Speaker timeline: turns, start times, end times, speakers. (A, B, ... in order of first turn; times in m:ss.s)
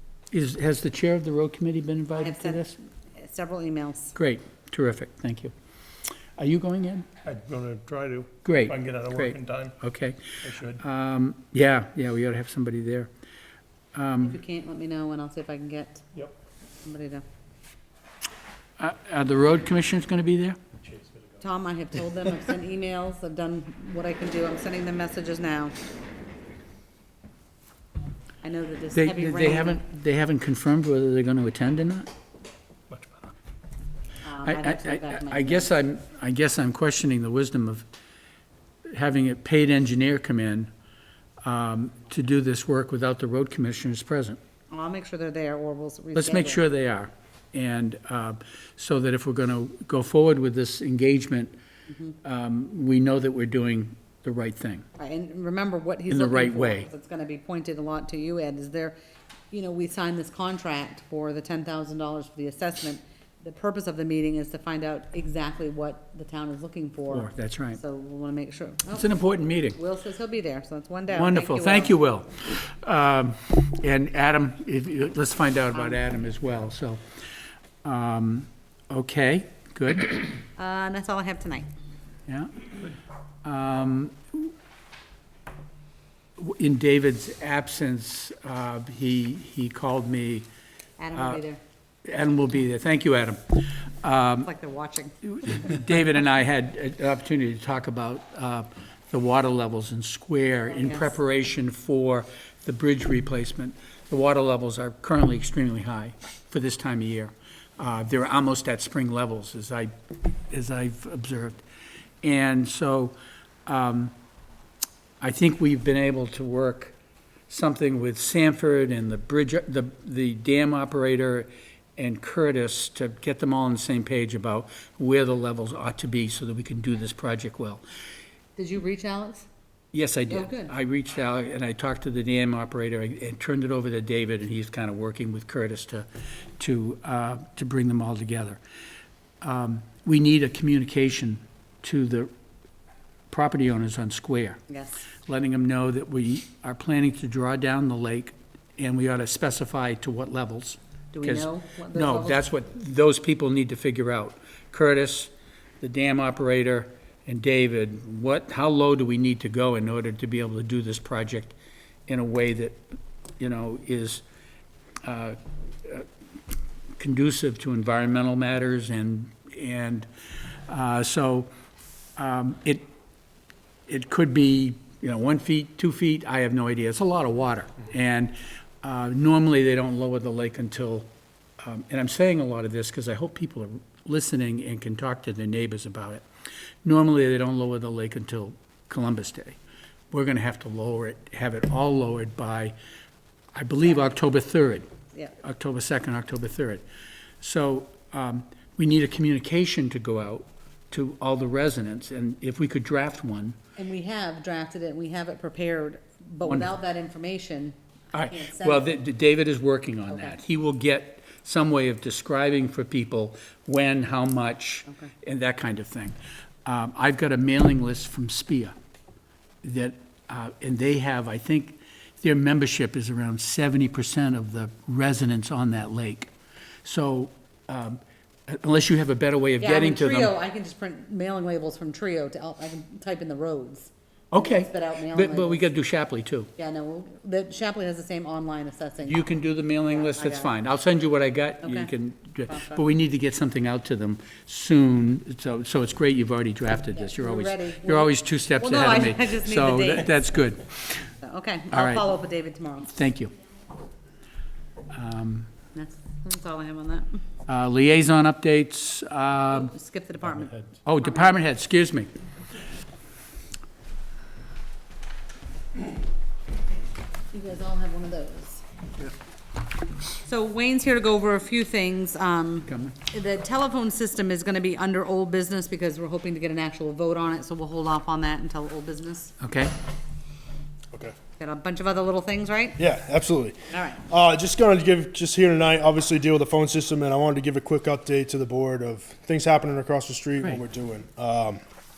0:00.3-0:02.7 A
0:02.1-0:04.1 B
0:04.1-0:05.5 A
0:06.4-0:07.1 A
0:07.2-0:09.7 C
0:08.4-0:10.2 A
0:10.4-0:10.8 C
0:10.8-0:13.1 A
0:13.9-0:14.4 A
0:14.2-0:16.0 B
0:16.8-0:17.2 B
0:18.8-0:20.6 A
0:20.8-0:21.4 C
0:21.4-0:25.7 B
0:28.4-0:29.8 B
0:28.9-0:32.1 A
0:32.9-0:33.3 C
0:34.2-0:35.7 B
0:34.4-0:37.8 A
0:38.9-0:40.7 A
0:41.4-0:44.4 A
0:44.7-0:46.6 B
0:46.1-0:51.5 A
0:51.9-0:52.1 B
0:52.2-0:54.8 A
0:55.0-0:58.9 B
0:56.1-0:56.9 A
0:59.5-1:09.1 B
1:07.1-1:07.8 A
1:08.9-1:09.8 A
1:09.7-1:12.0 B
1:11.1-1:17.0 A
1:15.7-1:16.0 B
1:17.8-1:20.2 A
1:20.6-1:21.7 B
1:22.3-1:22.7 A
1:23.4-1:24.5 A
1:26.4-1:30.5 A
1:31.0-1:31.6 B
1:31.1-1:31.4 A
1:32.0-1:34.5 A
1:34.4-1:35.5 B
1:35.4-1:49.9 A
1:40.7-1:41.1 B
1:50.5-1:51.6 A
1:52.2-1:53.1 A
1:53.6-1:54.1 A
1:55.2-1:56.9 A
1:57.5-2:07.8 A
2:08.6-2:09.5 B
2:09.9-2:16.0 A
2:10.3-2:10.7 B
2:16.6-2:18.6 A
2:19.4-2:22.3 A
2:23.3-2:24.6 A
2:24.7-2:25.0 B
2:25.2-2:41.6 A
2:31.1-2:32.4 B
2:42.1-2:42.8 A
2:43.4-2:44.2 A
2:45.0-2:46.1 A
2:47.0-2:51.5 A
2:52.2-2:52.8 A
2:53.9-3:06.2 A
3:06.8-3:09.6 A
3:10.1-3:12.7 A
3:13.5-3:14.9 A
3:15.4-3:16.8 A
3:17.4-3:23.6 A
3:23.8-3:29.0 B
3:28.1-3:38.7 A
3:39.6-3:46.3 A
3:46.8-3:50.3 A
3:49.6-3:55.7 B
3:54.3-3:56.5 A
3:56.6-3:59.3 B
3:59.0-4:11.0 A
3:59.8-4:00.5 B
4:01.6-4:01.9 B
4:02.5-4:02.8 B
4:06.9-4:10.3 B
4:11.2-4:12.9 B
4:11.7-4:12.0 A
4:12.9-4:13.3 A
4:14.9-4:15.5 A
4:15.7-4:17.2 B
4:17.5-4:19.7 A
4:19.5-4:21.4 B
4:20.8-4:22.1 A
4:27.3-4:28.6 B
4:30.2-4:39.3 B
4:32.7-4:32.9 A
4:39.4-4:39.7 A
4:41.4-4:42.8 B
4:42.8-4:51.6 D
4:43.7-4:44.0 B